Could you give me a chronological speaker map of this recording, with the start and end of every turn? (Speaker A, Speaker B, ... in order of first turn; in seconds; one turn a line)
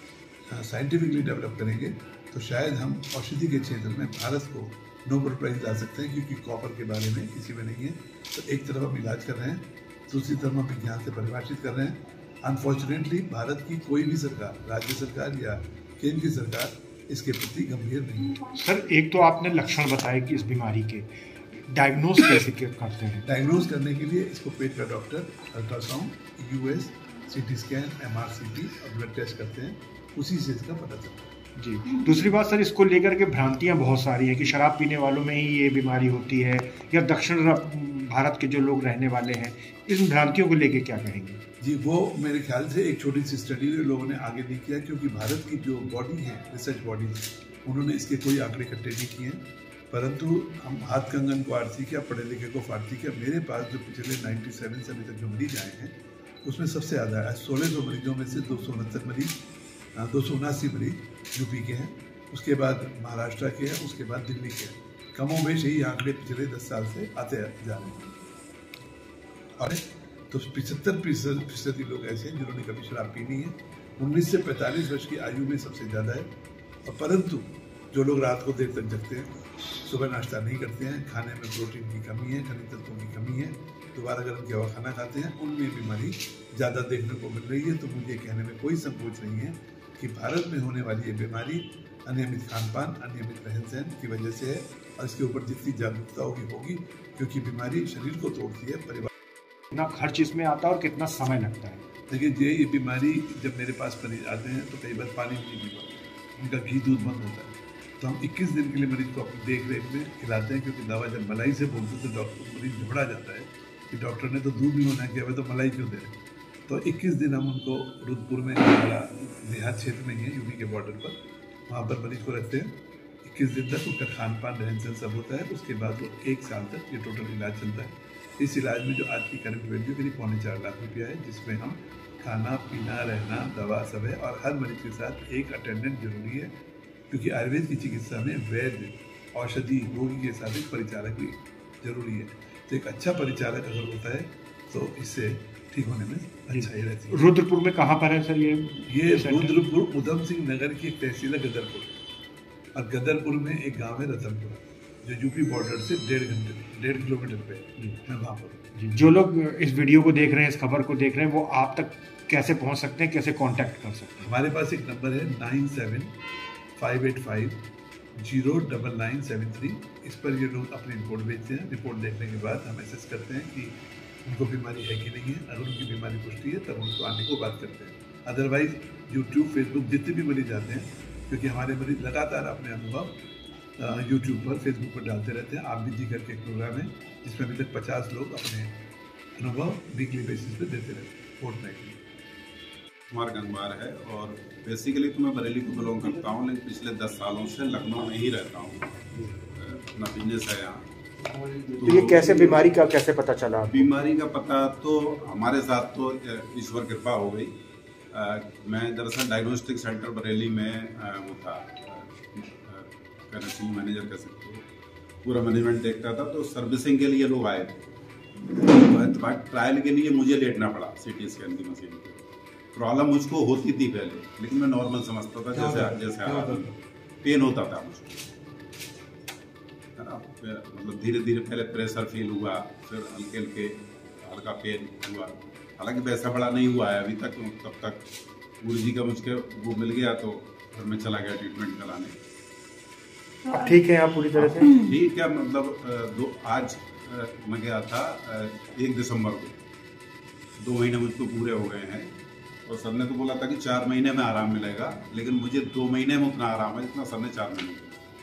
Speaker A: 0.5-18.4
Speaker B: 18.4-21.1
Speaker B: 21.7-23.2
Speaker A: 23.2-31.3
Speaker B: 31.6-41.4
Speaker A: 41.6-59.4
Speaker A: 60.0-68.1
Speaker A: 69.6-76.3
Speaker A: 76.8-99.1
Speaker B: 99.7-101.8
Speaker A: 102.1-116.1
Speaker A: 116.7-121.2
Speaker A: 121.7-136.5
Speaker A: 137.1-147.3
Speaker B: 146.5-149.6
Speaker A: 148.9-151.9
Speaker A: 152.8-158.7
Speaker B: 158.8-164.3
Speaker A: 164.2-166.2
Speaker A: 166.8-167.7
Speaker A: 168.2-183.2
Speaker A: 183.8-188.7
Speaker A: 189.4-192.0
Speaker C: 193.1-199.0
Speaker C: 199.6-200.9
Speaker C: 201.7-202.8
Speaker B: 201.8-203.9
Speaker C: 203.7-207.6
Speaker C: 208.1-214.6
Speaker C: 215.2-217.8
Speaker C: 218.5-222.2
Speaker C: 222.7-226.7
Speaker C: 227.2-228.2
Speaker C: 230.0-238.0
Speaker C: 238.6-242.1
Speaker B: 243.5-244.8
Speaker C: 244.4-249.6
Speaker C: 250.6-252.1
Speaker C: 252.7-258.0